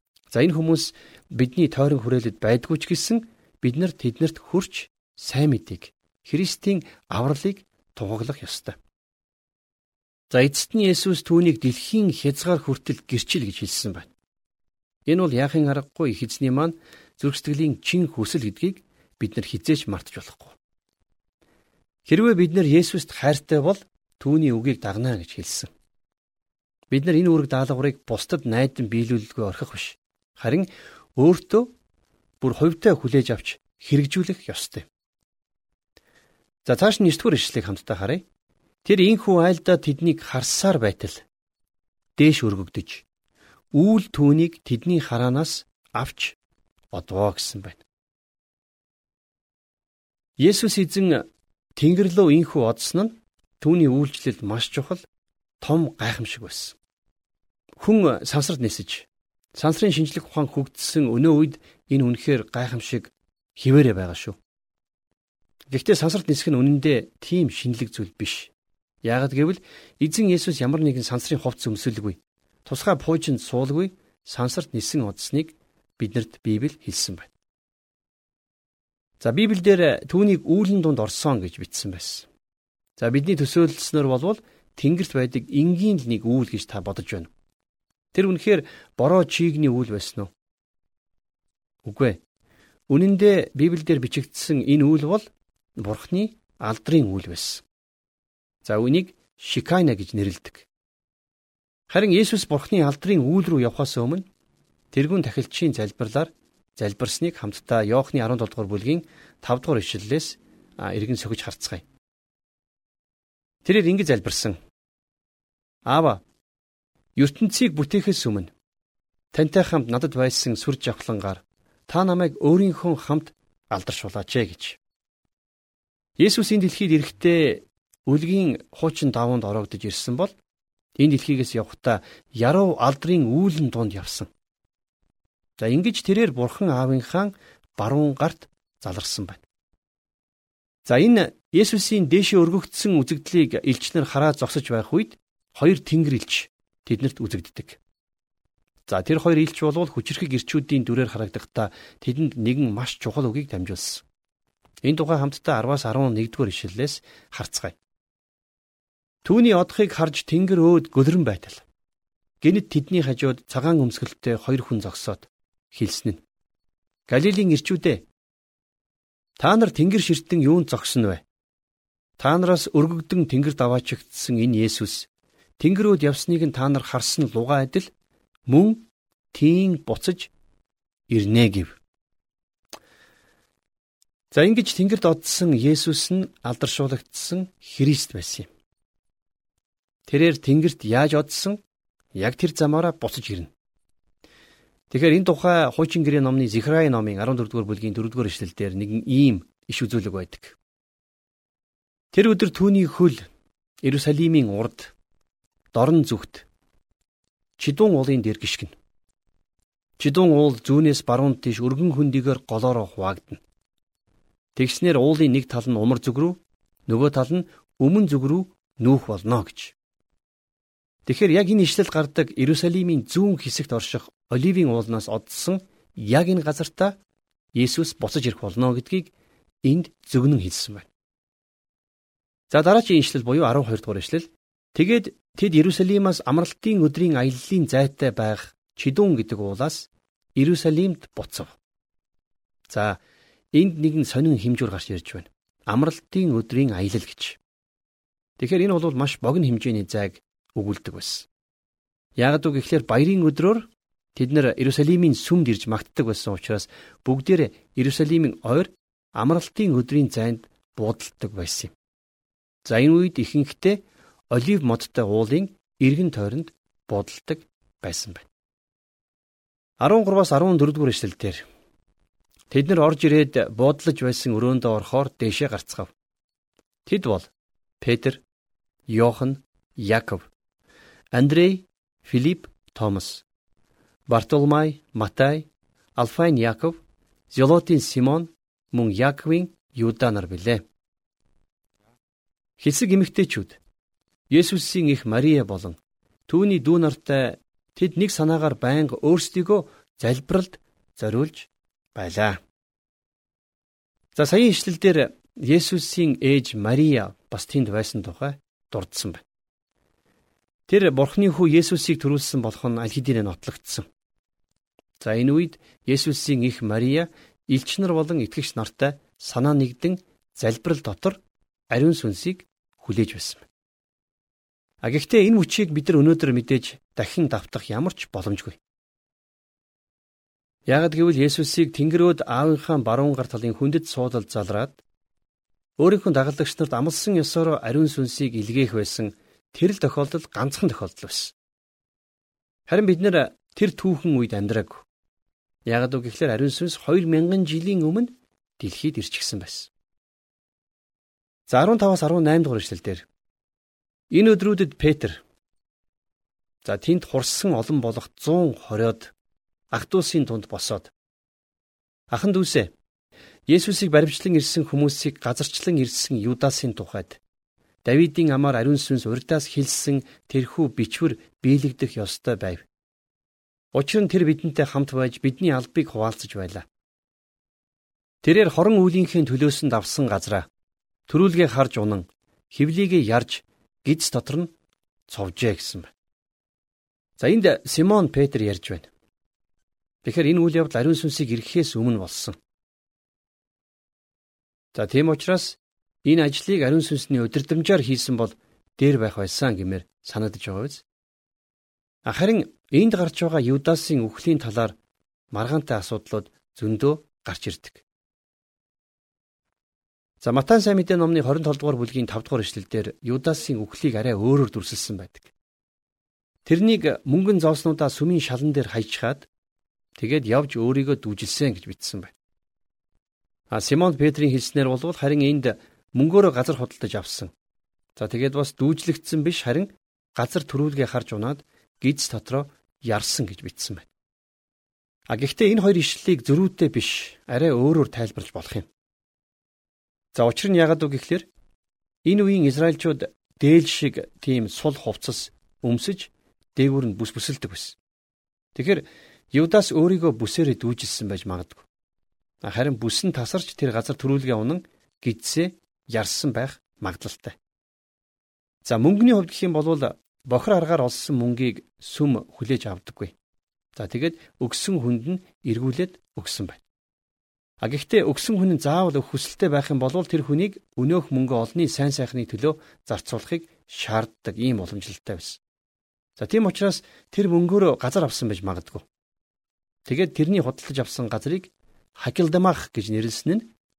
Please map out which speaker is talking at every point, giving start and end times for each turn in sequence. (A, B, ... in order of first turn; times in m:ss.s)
0:00.3-0:08.8 A
0:10.3-0:14.1 A
0:15.0-0:20.6 A
0:22.1-0:25.7 A
0:26.9-0:31.7 A
0:32.4-0:34.9 A
0:36.6-0:38.2 A
0:38.8-0:41.2 A
0:42.2-0:43.0 A
0:43.7-0:46.4 A
0:46.9-0:47.8 A
0:50.4-0:51.2 A
0:51.8-0:55.0 A
0:55.6-0:56.8 A
0:57.8-1:04.4 A
1:05.7-1:08.5 A
1:09.0-1:17.3 A
1:19.2-1:22.3 A
1:23.0-1:27.3 A
1:28.1-1:30.3 A
1:31.8-1:32.2 A
1:32.9-1:35.2 A
1:35.8-1:37.6 A
1:38.6-1:40.7 A
1:41.9-1:44.2 A
1:44.9-1:51.8 A
1:53.6-1:54.6 A
1:55.8-1:56.2 A
1:57.2-1:58.5 A
1:59.3-2:04.8 A
2:06.2-2:10.3 A
2:11.0-2:14.3 A
2:15.6-2:19.4 A
2:20.8-2:27.8 A
2:28.9-2:34.0 A
2:34.8-2:37.8 A
2:39.2-2:41.6 A
2:42.4-2:46.2 A
2:47.1-2:48.0 A
2:49.4-2:51.2 A
2:52.2-2:55.1 A
2:55.6-2:57.9 A
2:58.5-3:00.3 A
3:01.1-3:01.8 A
3:04.3-3:08.5 A
3:10.1-3:11.6 A
3:12.1-3:13.5 A
3:14.9-3:20.6 A
3:22.1-3:23.3 A
3:23.8-3:24.9 A
3:25.7-3:26.4 A
3:27.6-3:28.8 A
3:30.0-3:33.4 A
3:34.6-3:39.7 A
3:41.0-3:47.0 A
3:47.5-3:49.1 A
3:49.6-3:50.9 A
3:52.5-4:01.6 A
4:02.7-4:03.0 A
4:03.5-4:07.4 A
4:08.4-4:11.3 A
4:12.2-4:21.7 A
4:22.6-4:28.3 A
4:29.8-4:31.4 A
4:32.5-4:35.9 A
4:36.9-4:37.3 A
4:37.8-4:38.2 A
4:38.9-4:40.3 A
4:41.1-4:43.2 A
4:44.1-4:50.6 A
4:52.6-4:53.6 A
4:54.3-5:02.4 A
5:04.1-5:09.2 A
5:10.7-5:13.8 A
5:15.0-5:21.2 A
5:21.7-5:23.5 A
5:24.8-5:28.6 A
5:30.7-5:34.8 A
5:35.8-5:41.3 A
5:42.7-5:44.8 A
5:45.6-5:49.7 A
5:51.5-5:53.0 A
5:54.1-5:55.2 A
5:56.6-5:59.1 A
5:59.7-6:00.9 A
6:02.1-6:02.7 A
6:03.5-6:07.2 A
6:07.8-6:12.6 A
6:13.7-6:16.6 A
6:18.2-6:20.5 A
6:21.1-6:24.5 A
6:25.1-6:25.9 A
6:27.2-6:28.9 A
6:30.0-6:32.4 A
6:34.7-6:40.8 A
6:42.0-6:44.8 A
6:45.3-6:47.8 A
6:50.2-6:55.3 A
6:56.4-6:59.3 A
7:00.0-7:02.1 A
7:03.5-7:07.3 A
7:08.0-7:13.9 A
7:15.1-7:18.7 A
7:20.1-7:21.3 A
7:22.0-7:27.8 A
7:28.5-7:31.7 A
7:32.4-7:37.4 A
7:38.6-7:43.1 A
7:43.7-7:46.6 A
7:47.6-7:55.4 A
7:56.2-7:58.8 A
7:59.8-8:03.5 A